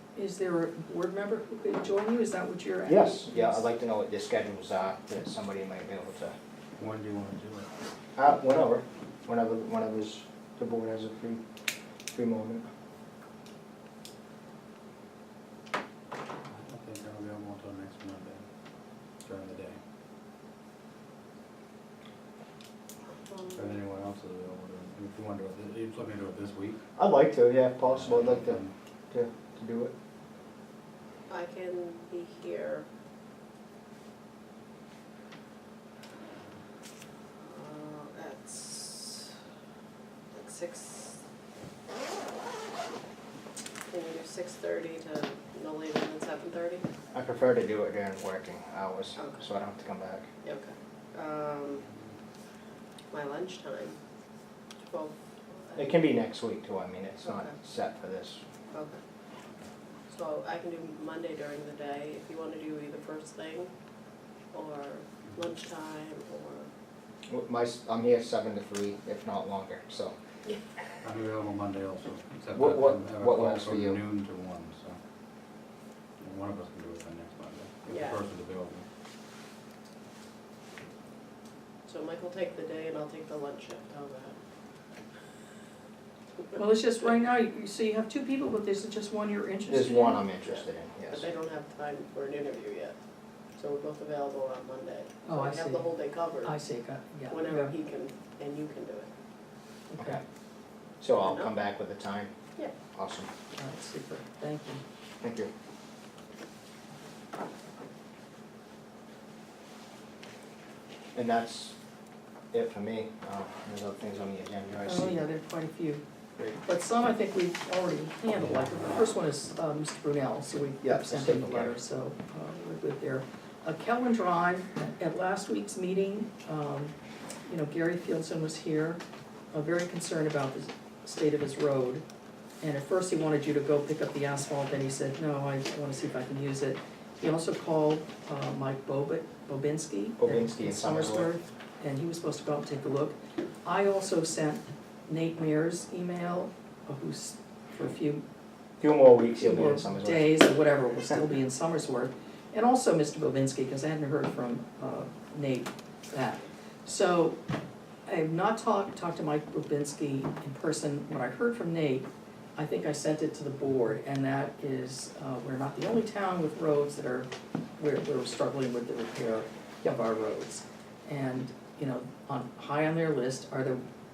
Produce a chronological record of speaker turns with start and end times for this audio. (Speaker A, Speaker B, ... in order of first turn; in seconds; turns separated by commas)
Speaker A: 0.1-3.6, Speaker B: 2.9-6.3, Speaker C: 6.8-7.7, Speaker B: 8.2-11.4, Speaker B: 12.1-12.7, Speaker C: 16.5-18.4, Speaker C: 19.2-19.8, Speaker D: 23.3-23.8, Speaker C: 23.5-26.8, Speaker B: 27.0-28.6, Speaker C: 27.8-28.7, Speaker B: 29.1-29.9, Speaker D: 31.3-32.9, Speaker D: 37.4-39.4, Speaker D: 40.3-41.2, Speaker D: 43.9-46.9, Speaker B: 47.1-50.3, Speaker D: 49.2-49.5, Speaker D: 50.4-51.9, Speaker D: 53.1-54.0, Speaker D: 54.8-56.0, Speaker B: 55.8-58.4, Speaker D: 58.7-59.0, Speaker D: 60.1-63.7, Speaker D: 64.5-66.7, Speaker B: 67.3-70.2, Speaker C: 71.0-75.0, Speaker B: 72.5-74.0, Speaker C: 76.2-78.9, Speaker D: 77.9-78.2, Speaker D: 81.9-84.4, Speaker A: 86.5-90.2, Speaker B: 89.7-91.3, Speaker D: 90.5-93.0, Speaker D: 93.6-96.6, Speaker A: 95.2-97.7, Speaker D: 97.3-99.1, Speaker A: 99.9-100.2, Speaker B: 100.0-100.2, Speaker B: 101.0-102.3, Speaker D: 101.2-101.5, Speaker B: 103.0-103.3, Speaker A: 103.5-104.8, Speaker B: 105.2-105.5, Speaker B: 111.2-111.8, Speaker B: 112.5-115.3, Speaker A: 114.8-116.0, Speaker A: 116.6-126.9, Speaker B: 120.8-121.8, Speaker A: 127.5-129.0, Speaker A: 129.5-132.0, Speaker A: 132.6-148.2, Speaker B: 140.2-141.3, Speaker B: 148.8-150.3, Speaker A: 149.4-157.4, Speaker A: 158.1-173.8